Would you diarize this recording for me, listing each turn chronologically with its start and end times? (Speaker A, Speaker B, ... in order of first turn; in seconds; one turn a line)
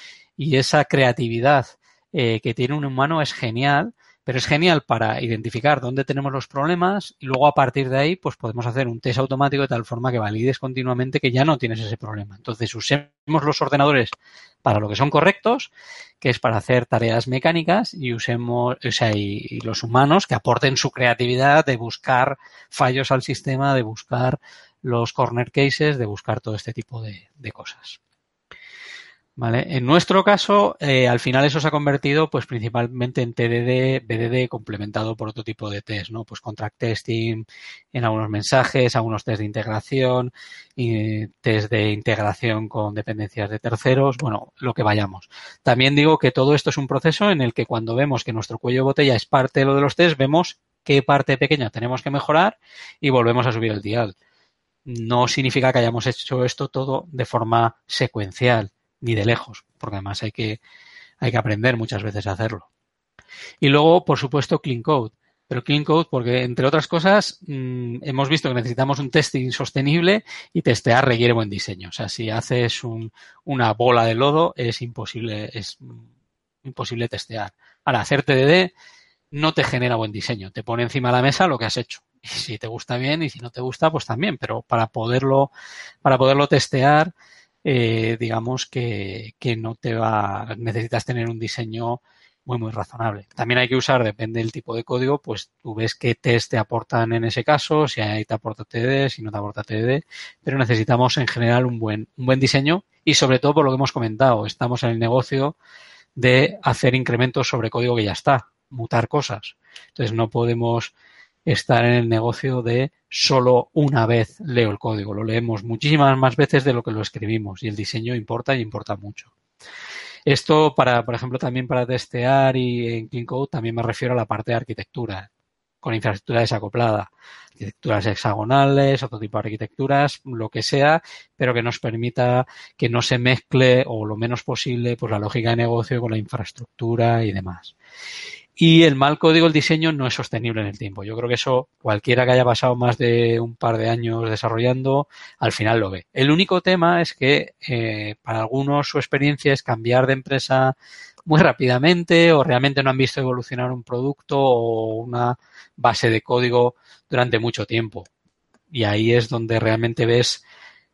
Speaker A: 0.4-15.7
Speaker A: 16.2-28.0
Speaker A: 29.4-54.1
Speaker A: 54.9-60.6
Speaker A: 61.2-62.7
Speaker A: 63.6-76.0
Speaker A: 76.6-78.7
Speaker A: 79.3-85.5
Speaker A: 86.0-87.1
Speaker A: 87.6-105.6
Speaker A: 106.2-110.9
Speaker A: 111.5-119.3
Speaker A: 120.3-125.3
Speaker A: 125.8-137.7
Speaker A: 138.6-150.7
Speaker A: 151.3-158.1
Speaker A: 158.7-160.4